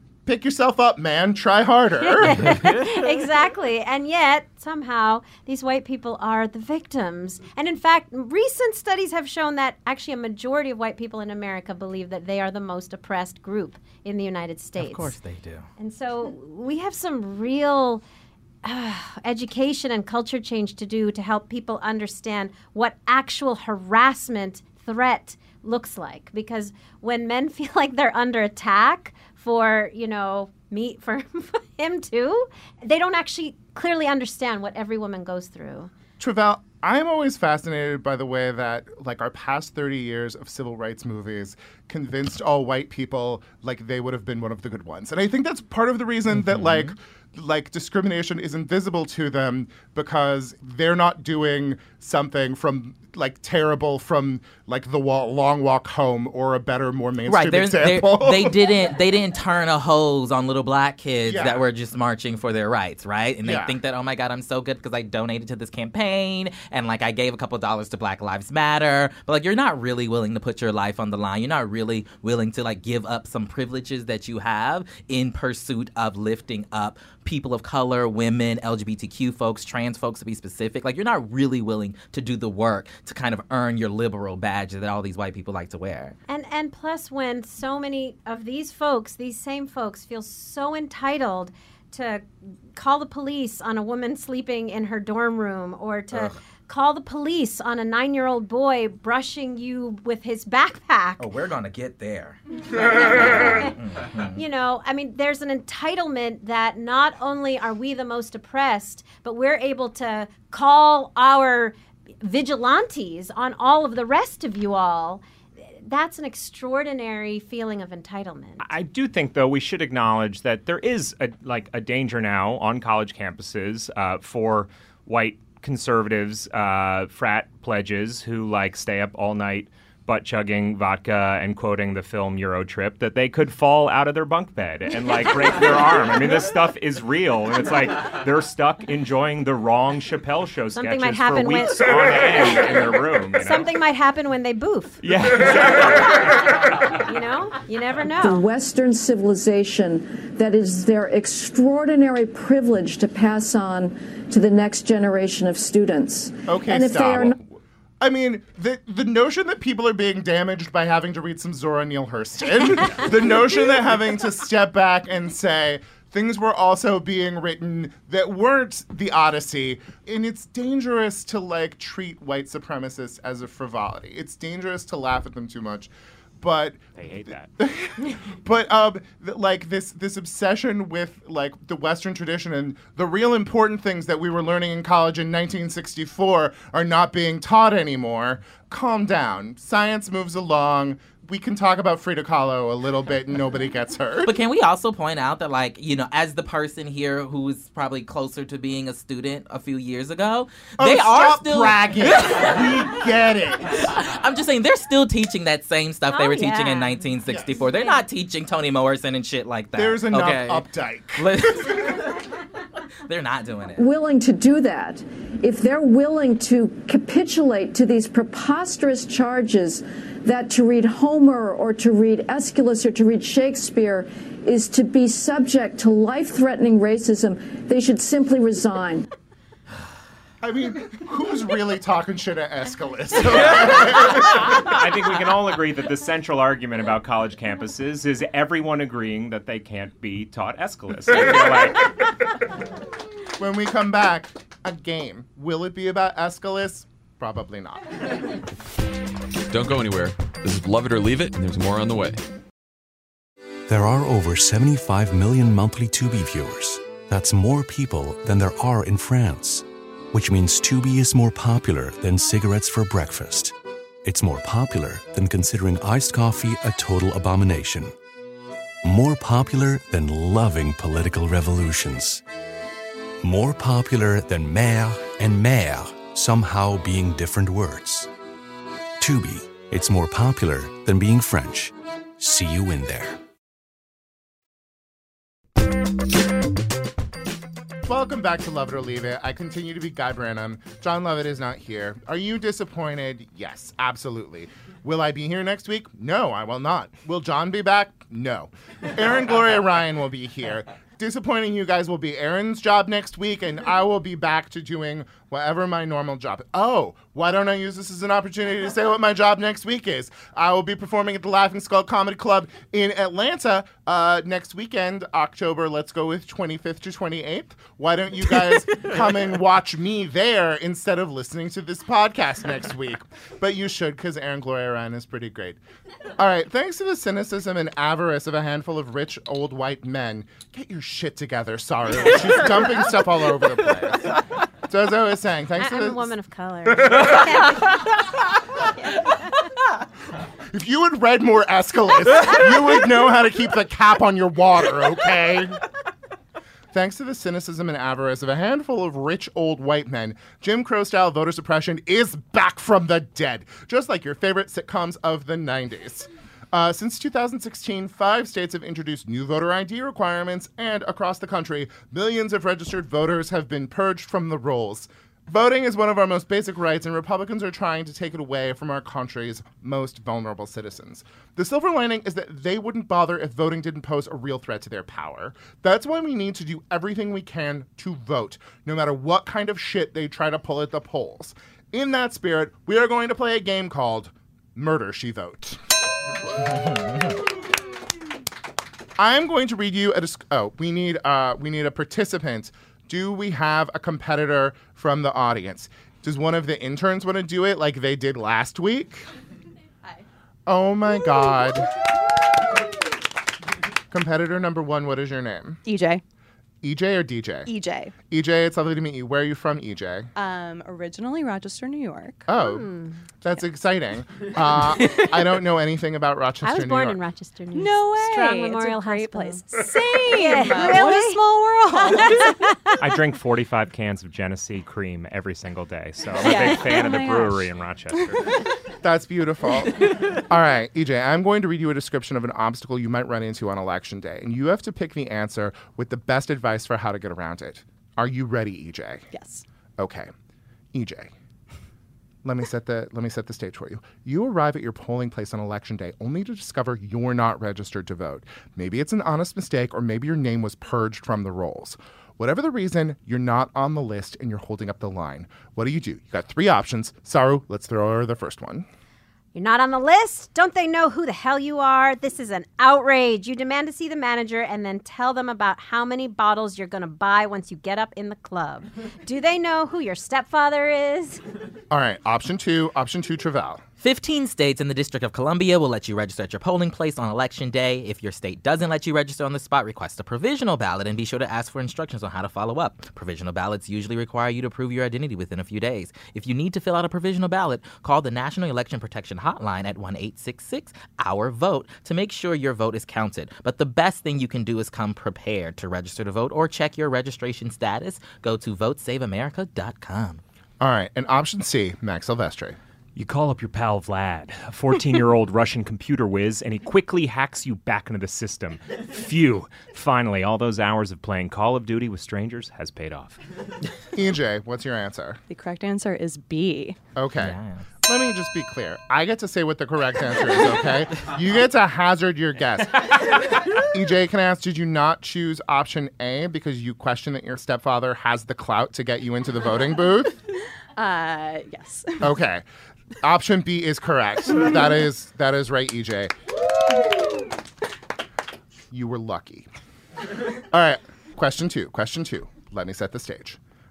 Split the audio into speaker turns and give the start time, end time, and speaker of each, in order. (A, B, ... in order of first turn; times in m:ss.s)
0:00.2-0:02.6 A
0:02.0-0:15.1 B
0:14.8-0:15.7 C
0:15.8-0:18.0 B
0:18.6-0:35.9 B
0:36.2-0:58.7 A
0:57.3-1:26.1 C
1:01.2-1:01.6 A
1:03.4-1:03.8 A
1:26.3-1:41.3 B
1:41.2-1:44.4 C
1:43.2-1:43.6 B
1:44.3-1:55.2 B
1:55.7-1:58.7 B
1:58.6-2:23.7 D
2:20.7-2:22.8 B
2:23.4-2:25.0 B
2:25.0-2:26.9 D
2:26.8-2:28.4 B
2:28.2-2:37.4 E
2:36.5-2:56.8 A
2:57.0-2:57.5 D
2:57.6-3:14.3 A
3:14.2-3:22.8 C
3:20.8-3:23.9 A
3:23.8-3:30.6 C
3:26.1-3:27.0 B
3:27.2-3:27.5 A
3:27.7-3:28.0 B
3:29.7-3:32.0 A
3:31.2-3:32.2 C
3:33.0-3:33.9 C
3:33.8-3:49.1 E
3:50.4-3:54.7 A
3:53.4-4:02.1 D
4:03.4-4:08.1 A
4:09.5-4:12.2 F
4:13.7-4:23.5 G
4:24.0-4:27.9 G
4:28.8-4:32.2 G
4:33.2-4:38.1 G
4:39.0-4:43.2 G
4:47.8-5:25.6 A
5:26.2-5:36.1 A
5:35.6-5:37.8 B
5:36.6-5:37.2 A
5:40.5-5:45.6 A
5:46.7-6:25.6 A
6:29.0-6:39.0 A
6:40.5-6:41.7 A
6:43.9-6:45.6 A
6:45.6-6:46.0 H
6:46.6-6:47.5 A
6:47.5-6:47.9 H
6:48.1-6:50.1 A
6:50.2-6:52.3 H
6:52.3-6:57.0 A
6:52.4-6:53.0 B
6:54.8-6:55.2 H
6:56.4-7:01.2 B
6:57.5-7:02.5 H
7:02.0-7:02.8 B
7:02.8-7:08.3 D
7:06.1-7:08.3 H
7:08.8-7:19.1 A
7:19.1-7:19.4 H
7:19.8-7:20.1 A
7:20.7-7:21.1 A
7:22.2-7:38.7 A
7:39.3-7:51.2 B
7:51.7-7:53.6 A
7:53.8-8:20.2 C
8:20.6-8:22.6 A
8:22.9-8:33.2 D
8:33.9-8:35.2 A
8:35.3-8:36.8 H
8:37.0-8:50.2 A
8:37.2-8:37.6 C
8:50.8-8:52.1 H
8:52.0-8:52.4 A
8:53.0-8:56.1 A
8:58.7-8:59.5 A
9:00.3-9:03.4 A